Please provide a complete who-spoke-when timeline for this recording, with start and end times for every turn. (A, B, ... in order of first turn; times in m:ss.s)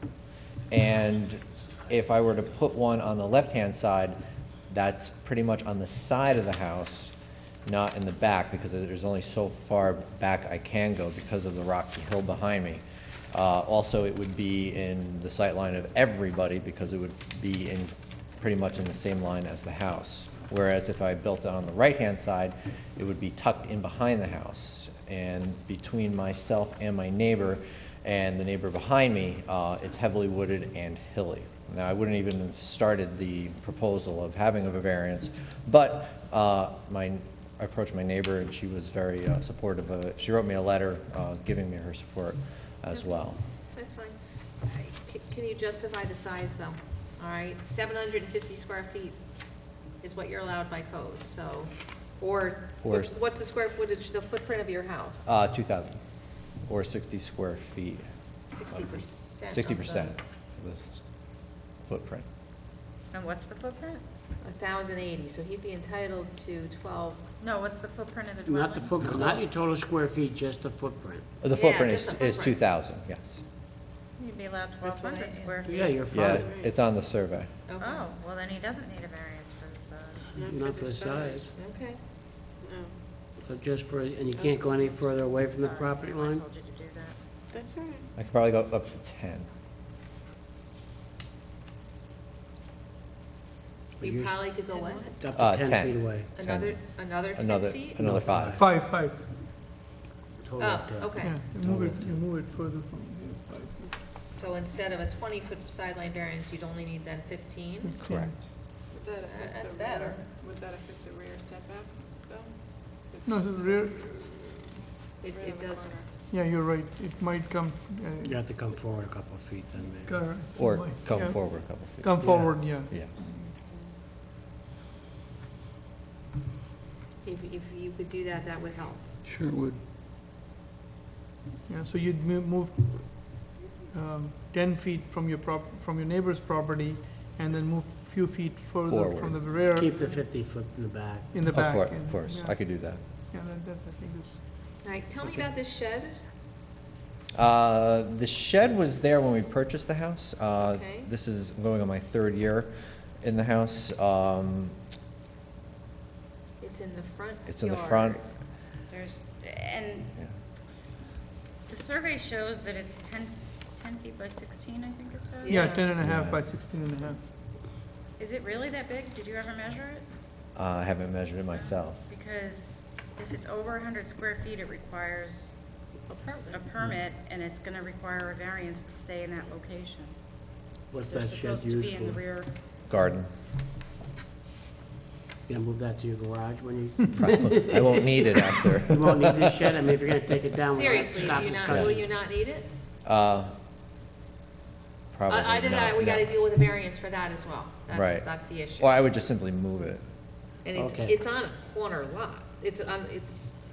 0:00.7-0:04.2 A
0:04.7-0:07.1 A
0:07.7-0:43.4 A
0:42.9-0:43.2 B
0:43.7-0:49.2 B
0:50.0-0:55.3 B
0:52.8-0:53.2 A
0:55.2-0:56.0 A
0:56.6-0:58.1 A
0:58.5-1:00.2 B
0:58.7-1:01.0 A
1:01.8-1:02.2 A
1:03.1-1:04.0 C
1:04.4-1:07.2 B
1:07.4-1:09.0 C
1:08.4-1:11.2 D
1:11.4-1:13.4 A
1:11.5-1:12.6 B
1:14.2-1:15.9 C
1:14.8-1:15.9 B
1:15.6-1:16.6 D
1:16.1-1:17.5 A
1:16.3-1:16.7 E
1:17.7-1:18.1 B
1:17.8-1:20.3 C
1:20.3-1:21.1 E
1:20.4-1:21.6 D
1:21.2-1:22.0 B
1:22.6-1:23.0 E
1:23.4-1:26.4 D
1:24.7-1:27.2 C
1:27.5-1:28.1 E
1:28.2-1:29.5 A
1:34.0-1:34.6 D
1:34.0-1:35.2 B
1:35.2-1:36.3 D
1:35.3-1:38.6 A
1:36.3-1:38.0 B
1:38.0-1:38.6 D
1:38.6-1:39.2 F
1:40.4-1:41.8 D
1:40.6-1:41.4 B
1:41.2-1:44.0 F
1:41.6-1:42.1 A
1:44.3-1:48.0 B
1:47.8-1:48.6 F
1:48.0-1:48.4 A
1:48.9-1:53.9 E
1:49.3-1:50.2 B
1:53.3-1:54.5 F
1:55.2-1:56.0 B
1:55.2-1:56.1 E
1:56.3-1:58.4 F
1:58.2-2:00.2 D
2:00.0-2:03.5 F
2:00.6-2:02.2 A
2:02.2-2:02.6 D
2:07.2-2:09.0 B
2:11.7-2:20.0 F
2:18.9-2:19.4 A
2:19.7-2:21.3 D
2:21.3-2:24.4 F
2:21.5-2:23.0 A
2:24.8-2:26.2 B
2:27.4-2:32.7 A
2:30.6-2:31.1 B
2:33.2-2:34.8 A
2:36.6-2:38.2 B
2:37.5-2:38.2 A
2:38.9-2:40.2 C
2:41.7-2:45.8 C
2:45.4-2:45.9 B
2:45.5-2:47.2 F
2:46.0-2:46.4 A
2:48.2-2:50.1 C
2:50.6-2:52.0 A
2:51.5-2:55.5 C
2:56.1-2:56.6 B
2:56.5-3:00.2 C
3:00.9-3:02.2 D
3:01.1-3:02.5 C
3:02.9-3:03.3 A
3:05.5-3:12.0 D
3:07.2-3:09.7 A
3:10.7-3:12.7 B
3:13.0-3:13.5 A
3:15.1-3:16.3 A
3:15.3-3:19.1 B
3:17.9-3:20.0 A
3:20.6-3:23.5 B
3:20.8-3:21.2 D